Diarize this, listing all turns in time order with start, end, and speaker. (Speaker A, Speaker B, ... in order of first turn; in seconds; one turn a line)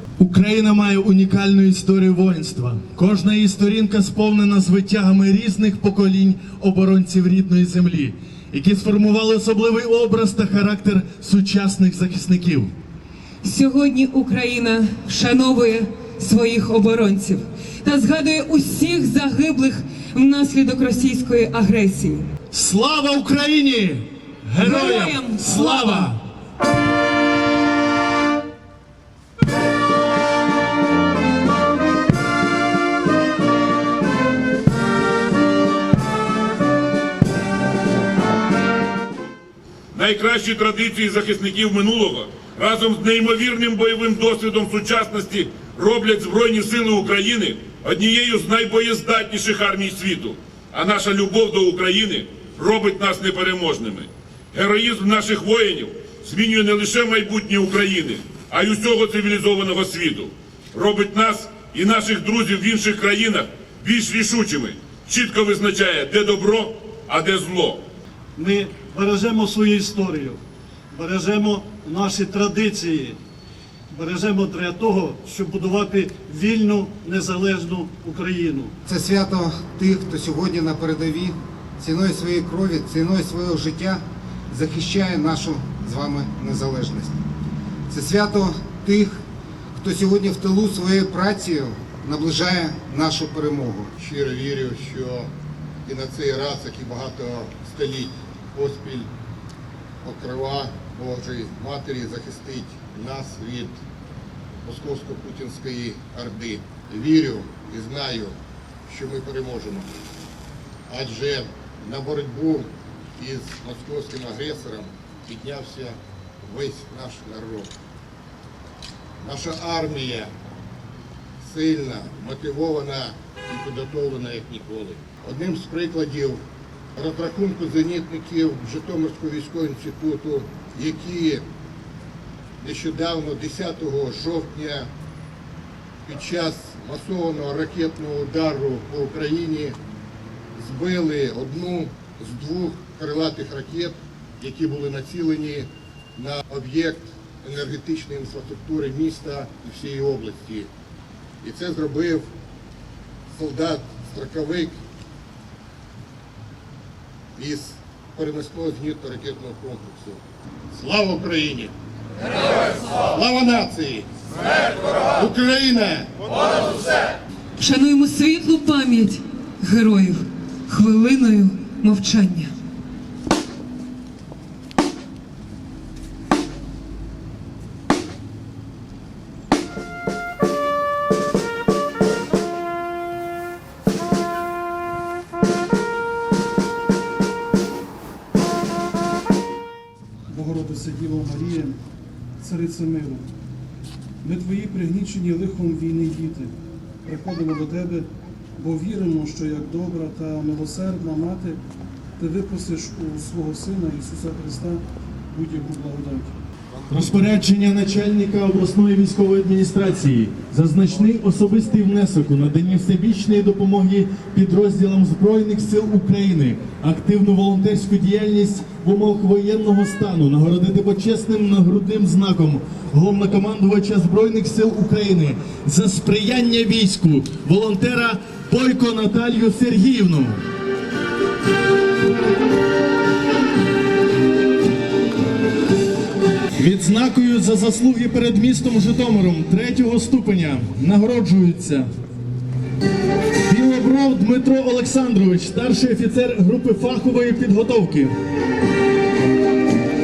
Speaker A: 0.2-12.7
Speaker B: 13.4-22.3
Speaker A: 22.5-26.2
Speaker B: 24.6-26.1
Speaker C: 39.9-67.8
Speaker D: 68.3-70.4
Speaker D: 70.9-73.2
Speaker D: 73.9-78.7
Speaker E: 78.8-87.2
Speaker E: 87.9-89.2
Speaker E: 89.8-93.9
Speaker F: 94.0-95.3
Speaker F: 95.8-99.1
Speaker F: 100.0-103.8
Speaker F: 104.6-109.9
Speaker F: 110.9-117.7
Speaker F: 119.2-120.3
Speaker F: 121.4-126.4
Speaker F: 126.9-131.4
Speaker F: 132.6-134.9
Speaker F: 136.1-139.8
Speaker F: 140.5-150.7
Speaker F: 151.4-152.3
Speaker F: 153.3-154.8
Speaker F: 157.3-160.2
Speaker F: 160.7-161.7
Speaker F: 163.1-164.1
Speaker F: 165.2-166.1
Speaker B: 167.6-172.5
Speaker G: 190.3-191.7
Speaker G: 192.4-193.2
Speaker G: 194.2-196.5
Speaker G: 197.1-198.0
Speaker G: 198.6-201.6
Speaker G: 202.2-204.8
Speaker G: 205.3-206.3
Speaker A: 206.9-230.4
Speaker A: 236.6-241.9
Speaker A: 243.5-248.1